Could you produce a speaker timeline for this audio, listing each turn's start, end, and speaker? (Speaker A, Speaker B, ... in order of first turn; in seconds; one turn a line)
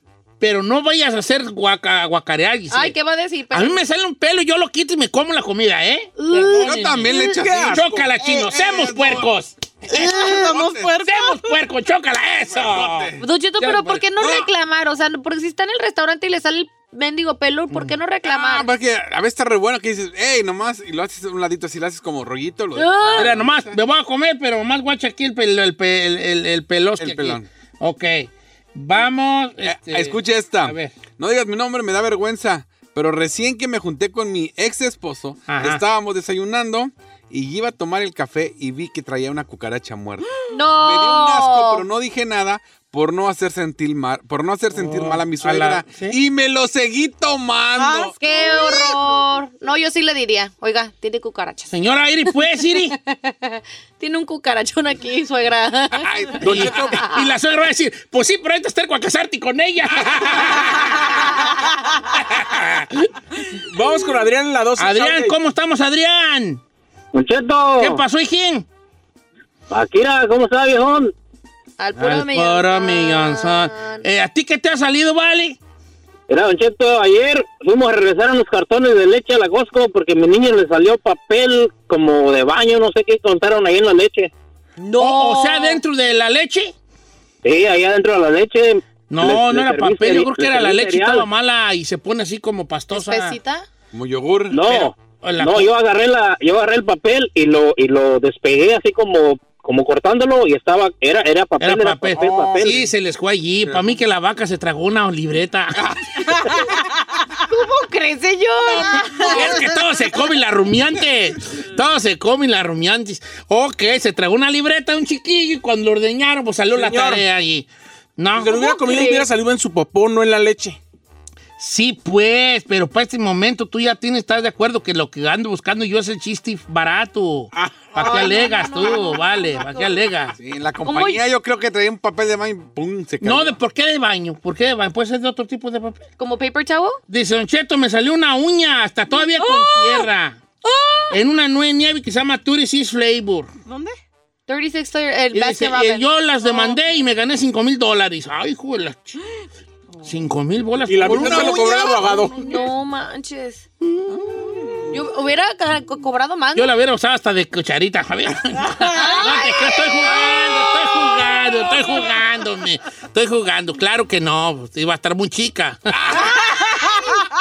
Speaker A: 0.4-3.0
Speaker B: 2.7-3.8
Speaker A: 3.5-14.0
Speaker B: 6.2-7.4
Speaker C: 6.6-9.3
Speaker D: 7.2-8.1
Speaker E: 9.9-11.5
Speaker C: 10.2-10.9
Speaker C: 12.5-13.2
Speaker B: 13.2-18.7
Speaker C: 14.2-14.5
Speaker A: 17.7-17.9
Speaker C: 18.2-23.7
Speaker B: 22.7-23.4
Speaker A: 23.1-31.0
Speaker C: 27.0-27.5
Speaker C: 29.6-48.1
Speaker A: 35.5-35.8
Speaker B: 40.5-41.8
Speaker A: 44.7-46.2
Speaker E: 47.8-49.0
Speaker B: 48.2-51.7
Speaker A: 51.7-53.0
Speaker B: 52.7-57.3
Speaker C: 56.0-56.7
Speaker D: 56.4-57.0
Speaker A: 56.4-61.5
Speaker A: 62.1-63.1
Speaker D: 63.6-65.3
Speaker A: 64.8-66.6
Speaker F: 67.1-68.0
Speaker A: 67.8-68.7
Speaker F: 69.7-71.1
Speaker B: 71.8-74.0
Speaker A: 72.0-75.6
Speaker F: 76.3-84.3
Speaker B: 84.8-85.8
Speaker A: 85.0-86.7
Speaker F: 87.4-91.3
Speaker A: 89.1-93.4
Speaker B: 92.9-93.6
Speaker C: 93.9-94.6
Speaker F: 94.5-102.8
Speaker A: 94.7-95.7
Speaker A: 101.6-105.9
Speaker B: 107.4-109.8
Speaker A: 108.8-118.6
Speaker D: 116.7-117.2
Speaker D: 118.3-120.8
Speaker B: 118.5-119.3
Speaker A: 121.6-130.3
Speaker D: 127.5-128.4
Speaker B: 128.1-129.9
Speaker C: 130.4-133.6
Speaker B: 130.8-131.2
Speaker A: 133.2-136.0
Speaker B: 136.2-137.0
Speaker A: 137.1-140.4
Speaker B: 139.4-140.0
Speaker B: 140.6-141.2
Speaker A: 141.1-143.5
Speaker E: 143.7-143.9
Speaker B: 144.5-146.8
Speaker A: 145.3-149.2
Speaker A: 150.1-151.6
Speaker D: 150.9-152.4
Speaker C: 151.0-152.2
Speaker B: 152.3-153.6
Speaker A: 153.8-154.2
Speaker C: 154.1-155.0
Speaker B: 154.9-156.7
Speaker A: 156.5-166.2
Speaker B: 158.8-161.2
Speaker C: 166.0-166.4